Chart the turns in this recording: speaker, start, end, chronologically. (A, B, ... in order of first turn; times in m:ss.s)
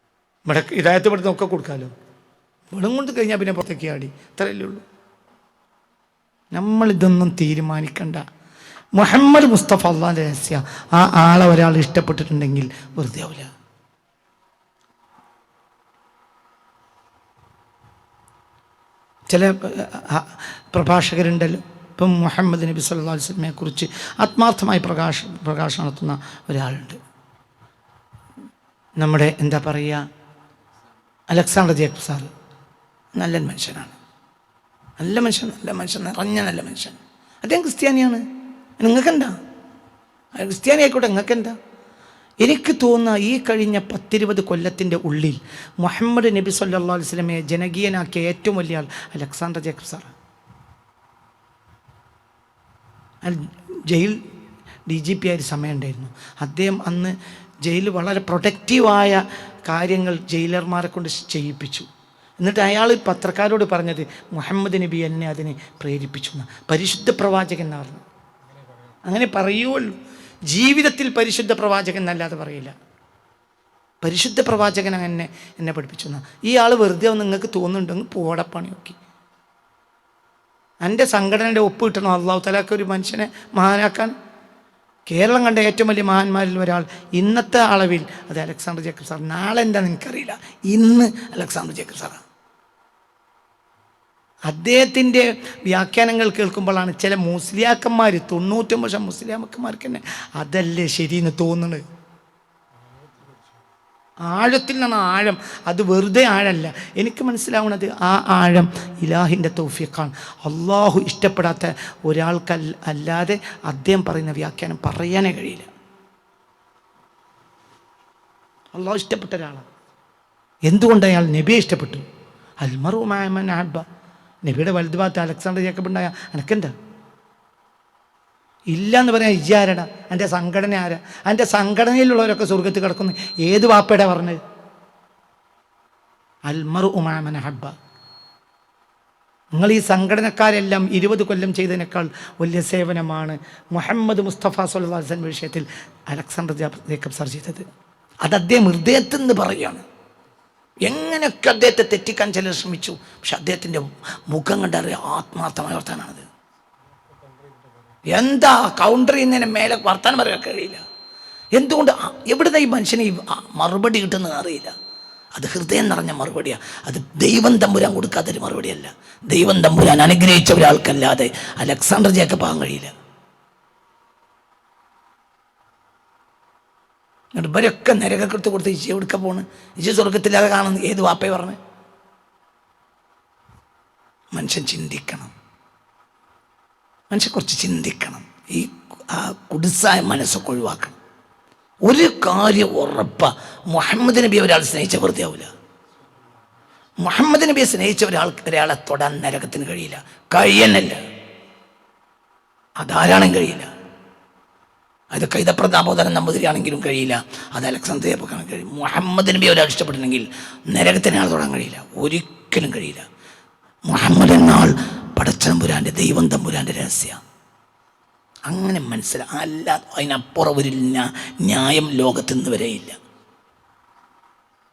0:00.5-0:01.9 A
0:02.7-0:04.8 A
0:06.5-0:08.2 A
0:09.0-0:13.5 A
0:19.3-0:27.0 A
0:29.0-0:30.0 A
0:31.3-0:32.3 A
0:33.2-0:34.0 A
0:35.0-0:38.2 A
0:38.8-0:39.4 A
0:40.4-0:41.6 A
0:42.4-0:50.1 A
0:53.2-0:54.2 A
0:54.9-1:01.9 A
1:02.4-1:08.0 A
1:09.1-1:10.0 A
1:10.5-1:12.8 A
1:14.0-1:19.0 A
1:20.8-1:24.2 A
1:25.1-1:32.2 A
1:34.5-1:41.8 A
1:44.3-1:55.7 A
1:58.7-1:59.6 A
2:00.7-2:02.0 A
2:02.6-2:03.8 A
2:04.4-2:06.7 A
2:08.7-2:14.4 A
2:16.5-2:17.7 A
2:19.6-2:27.6 A
2:28.2-2:29.8 A
2:30.8-2:36.3 A
2:38.1-2:40.8 A
2:41.6-2:44.7 A
2:45.4-2:52.9 A
2:57.4-3:01.6 A
3:04.3-3:05.3 A
3:07.1-3:11.0 A
3:11.9-3:15.5 A
3:17.0-3:21.0 A
3:22.8-3:23.7 A
3:25.1-3:33.0 A
3:33.9-3:37.2 A
3:38.5-3:43.0 A